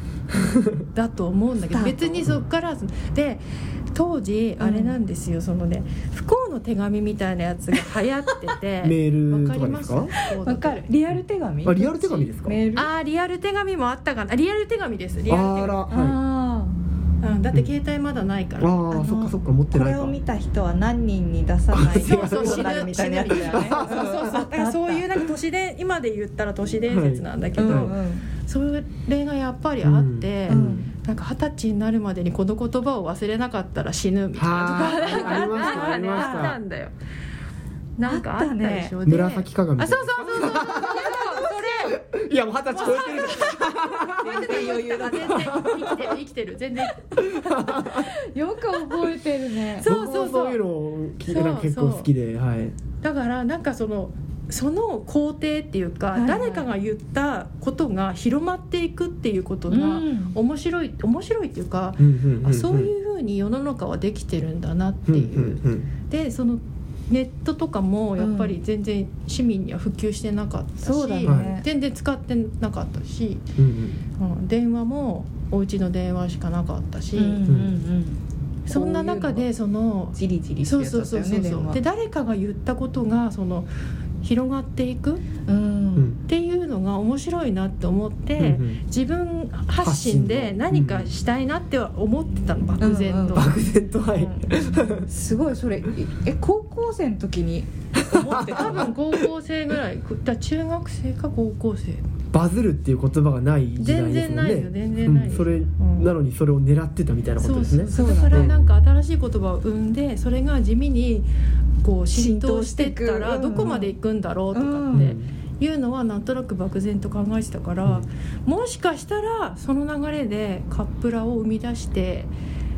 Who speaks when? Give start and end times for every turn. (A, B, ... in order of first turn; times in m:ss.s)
0:00.3-0:00.8 A
0:00.3-0:10.8 B
0:01.7-0:02.2 C
0:04.6-0:05.0 C
0:08.8-0:10.1 A
0:10.3-0:12.9 C
0:11.6-0:12.6 A
0:12.8-0:15.9 B
0:15.3-0:16.2 A
0:15.9-0:16.8 C
0:17.2-0:18.8 B
0:18.6-0:20.2 A
0:18.9-0:25.1 C
0:21.7-0:24.1 A
0:21.9-0:36.9 B
0:26.9-0:27.9 A
0:27.6-0:28.3 C
0:29.8-0:30.9 A
0:30.5-0:30.9 C
0:34.3-0:36.6 A
0:34.6-0:36.6 C
0:38.0-0:42.0 B
0:38.0-0:38.9 C
0:39.0-0:46.2 A
0:42.7-0:47.3 B
0:44.1-0:45.6 C
0:47.1-0:48.1 A
0:47.8-0:49.9 C
0:49.8-0:50.6 B
0:49.8-0:52.8 A
0:51.2-0:52.1 B
0:53.0-1:13.4 B
0:56.1-0:56.7 C
0:59.7-1:00.4 C
1:02.0-1:02.9 A
1:05.1-1:05.9 A
1:08.2-1:08.6 C
1:10.8-1:11.6 C
1:11.2-1:11.5 A
1:13.6-1:14.0 A
1:14.2-1:17.4 B
1:17.2-1:19.5 C
1:17.5-1:17.8 A
1:18.7-1:23.7 B
1:20.2-1:21.8 C
1:24.2-1:25.2 B
1:25.5-1:26.1 C
1:26.2-1:34.6 B
1:28.4-1:28.8 A
1:29.8-1:31.1 A
1:32.8-1:33.5 C
1:33.3-1:35.1 A
1:35.1-1:38.9 C
1:38.1-1:39.2 A
1:38.6-1:42.0 B
1:42.3-1:48.8 A
1:43.8-1:46.1 B
1:47.4-1:51.3 B
1:47.9-1:48.5 C
1:51.8-2:02.3 B
1:52.1-1:54.0 C
1:53.6-1:53.8 A
1:54.5-1:55.1 C
1:54.9-1:55.3 A